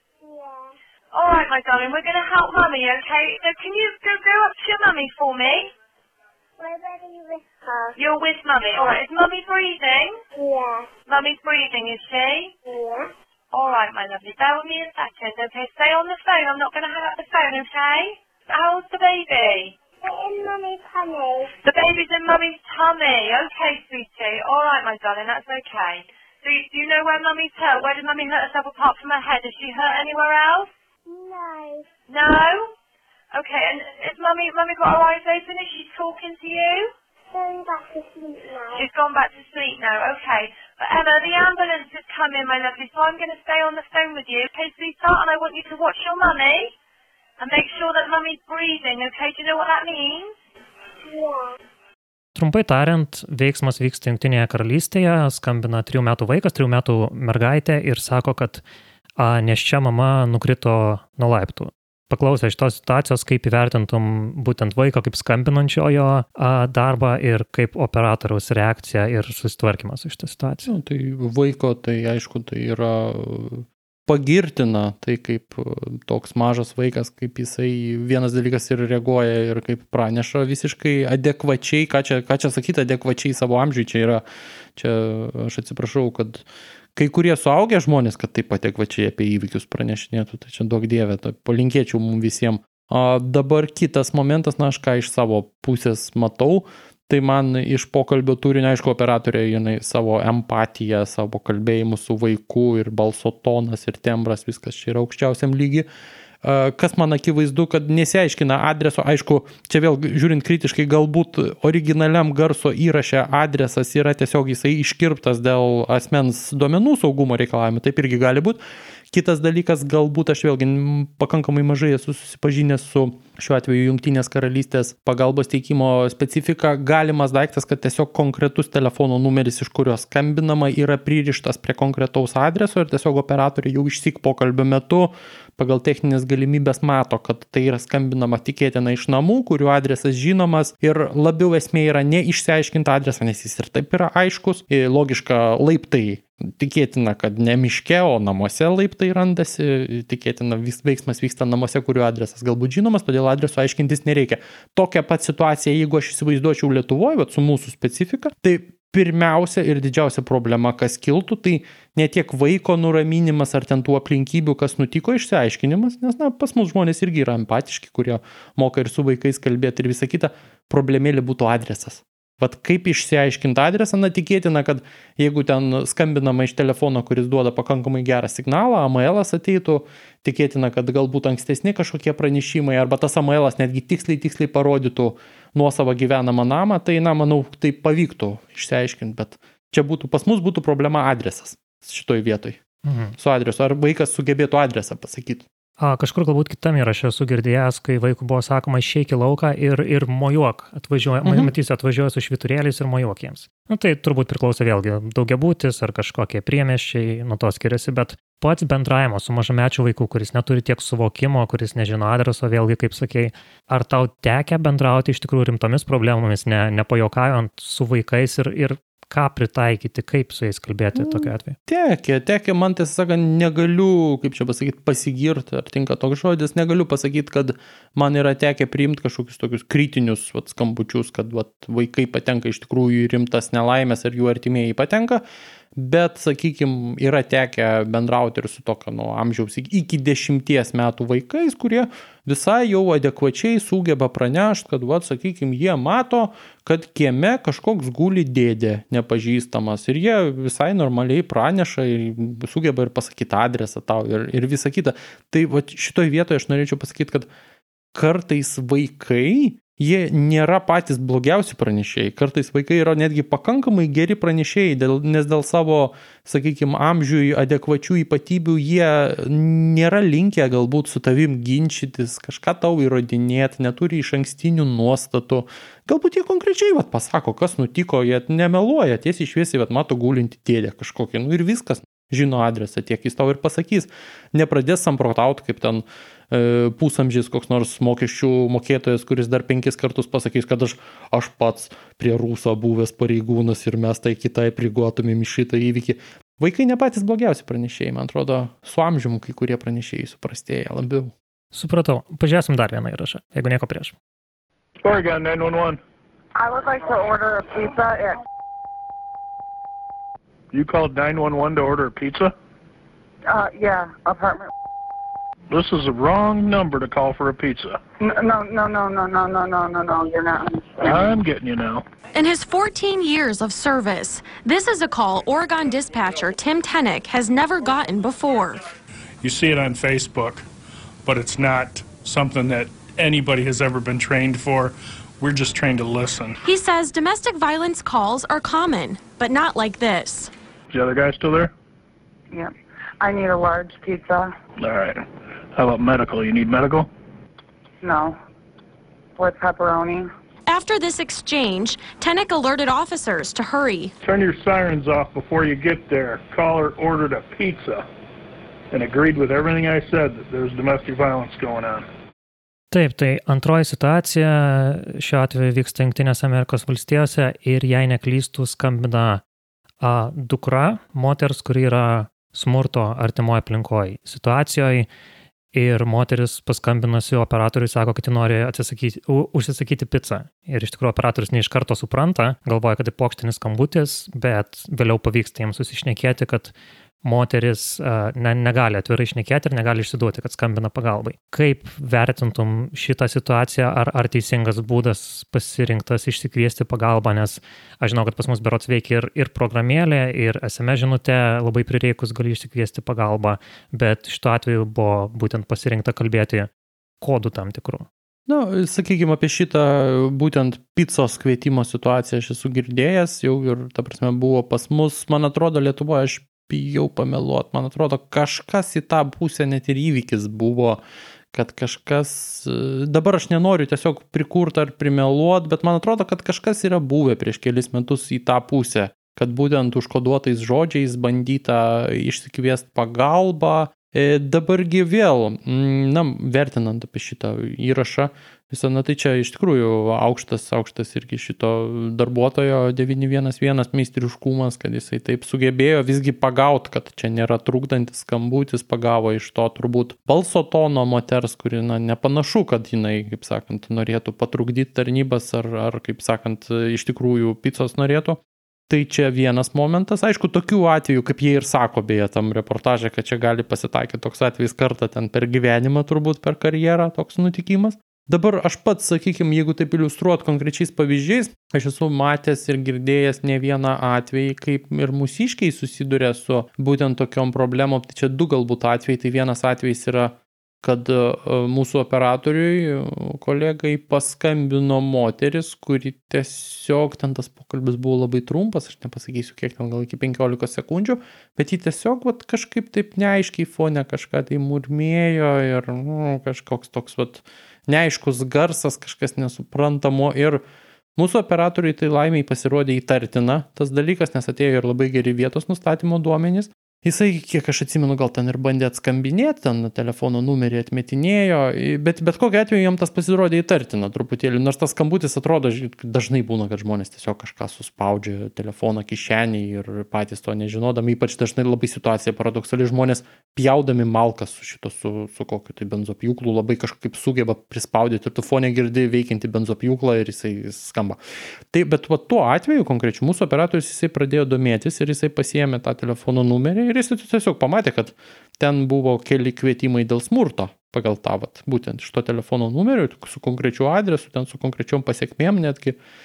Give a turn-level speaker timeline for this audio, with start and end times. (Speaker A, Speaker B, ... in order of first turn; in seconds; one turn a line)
Speaker A: 0.2-0.7
Speaker B: 1.1-5.7
Speaker A: 6.6-8.0
Speaker B: 8.0-10.2
Speaker A: 10.3-10.9
Speaker B: 11.1-12.5
Speaker A: 12.7-13.1
Speaker B: 13.5-19.8
Speaker A: 20.0-21.5
Speaker B: 21.6-30.7
Speaker A: 31.1-31.9
Speaker B: 32.1-32.7
Speaker B: 33.3-36.9
Speaker A: 37.3-38.9
Speaker B: 38.7-46.8
Speaker B: 47.4-50.3
Speaker A: 51.1-51.5
Speaker C: 52.4-58.6
Speaker C: 59.2-70.7
Speaker D: 70.7-84.2
Speaker D: 84.8-105.9
Speaker D: 106.4-192.6
Speaker C: 192.8-193.1
Speaker D: 193.2-195.5
Speaker C: 195.8-221.6
Speaker D: 201.2-201.5
Speaker D: 220.9-235.2
Speaker D: 235.8-257.3
Speaker D: 257.9-301.1
Speaker C: 301.5-303.9
Speaker E: 304.8-305.8
Speaker F: 306.4-308.2
Speaker E: 310.5-312.3
Speaker F: 313.3-314.5
Speaker E: 315.5-317.8
Speaker F: 318.0-321.1
Speaker E: 320.8-321.8
Speaker G: 322.1-328.6
Speaker H: 329.2-330.5
Speaker H: 331.1-336.4
Speaker G: 336.4-340.3
Speaker E: 340.7-341.5
Speaker F: 342.3-344.4
Speaker E: 344.6-346.9
Speaker F: 347.8-348.2
Speaker F: 349.2-350.1
Speaker G: 350.5-353.9
Speaker E: 354.0-357.9
Speaker E: 358.7-361.9
Speaker C: 362.7-369.2
Speaker C: 369.8-374.9
Speaker C: 375.5-386.5
Speaker C: 387.0-406.5
Speaker C: 407.0-407.9
Speaker D: 408.3-420.8
Speaker D: 421.3-500.4
Speaker D: 501.0-531.0
Speaker D: 531.5-545.8